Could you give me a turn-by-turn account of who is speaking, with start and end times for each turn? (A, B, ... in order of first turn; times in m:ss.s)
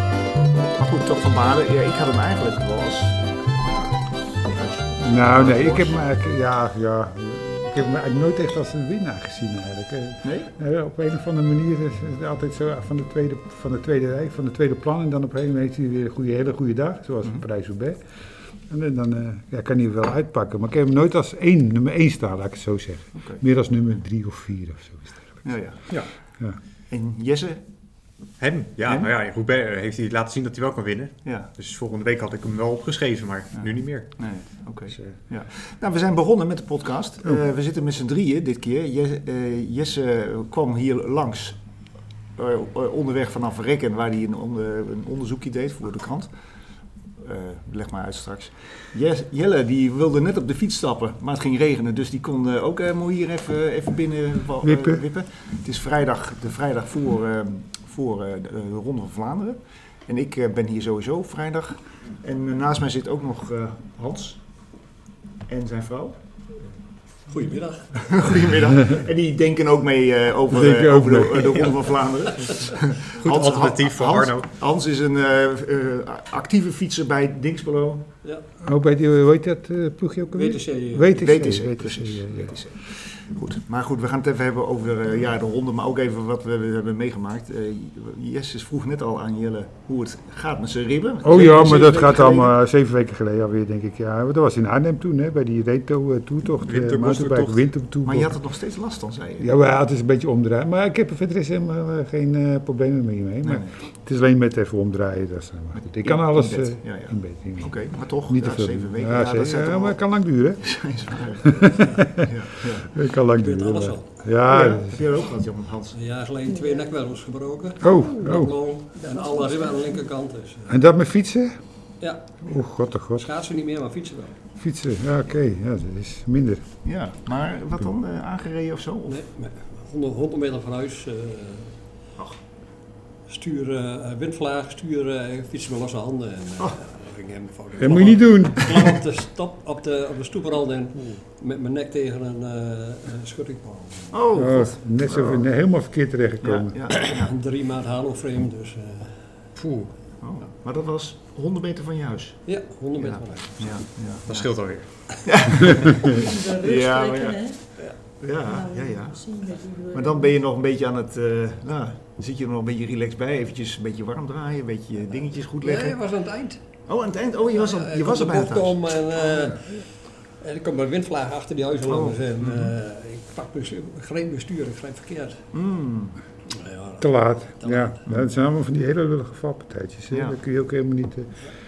0:00.8-0:06.0 A
0:05.0-0:18.1 B
0:10.2-0:10.5 A
0:18.7-0:25.4 B
0:23.2-0:23.4 A
0:25.4-0:26.0 A
0:26.9-0:27.6 A
0:28.4-0:34.3 C
0:33.6-0:41.6 A
0:42.4-0:46.3 A
0:47.2-1:04.6 A
0:54.6-0:55.0 B
1:05.5-1:06.2 A
1:07.3-1:08.2 D
1:07.9-1:18.1 A
1:10.5-1:11.7 B
1:13.1-1:14.5 C
1:18.6-1:22.6 B
1:20.3-1:21.3 D
1:21.2-1:32.6 A
1:31.2-1:38.4 B
1:36.7-1:39.5 A
1:39.4-1:50.9 B
1:43.4-1:43.8 A
1:45.7-1:50.0 A
1:50.6-1:53.0 A
1:51.5-1:52.3 B
1:53.0-1:54.9 B
1:53.3-1:54.2 D
1:54.5-1:56.0 A
1:55.9-2:00.8 D
1:56.5-1:56.9 E
1:57.8-1:58.6 B
2:00.7-2:01.6 B
2:02.0-2:02.6 D
2:02.5-2:03.3 B
2:03.1-2:04.4 D
2:04.6-2:06.8 B
2:06.8-2:09.2 A
2:09.1-2:11.8 D
2:13.3-2:24.2 D
2:17.8-2:18.9 B
2:24.1-2:25.5 A
2:24.3-2:26.8 B
2:26.4-2:27.3 A
2:26.9-2:29.4 D
2:29.6-2:29.9 C
2:30.2-2:39.3 A
2:32.5-2:33.9 D
2:34.3-2:35.0 C
2:36.0-2:40.3 E
2:39.9-2:46.0 A
2:45.6-2:46.6 D
2:46.9-2:48.8 A
2:47.5-2:55.4 D
2:51.8-2:52.7 A
2:55.5-2:56.2 A
2:56.5-2:58.0 D
2:57.0-3:01.5 B
2:58.1-2:58.4 A
3:00.1-3:00.4 A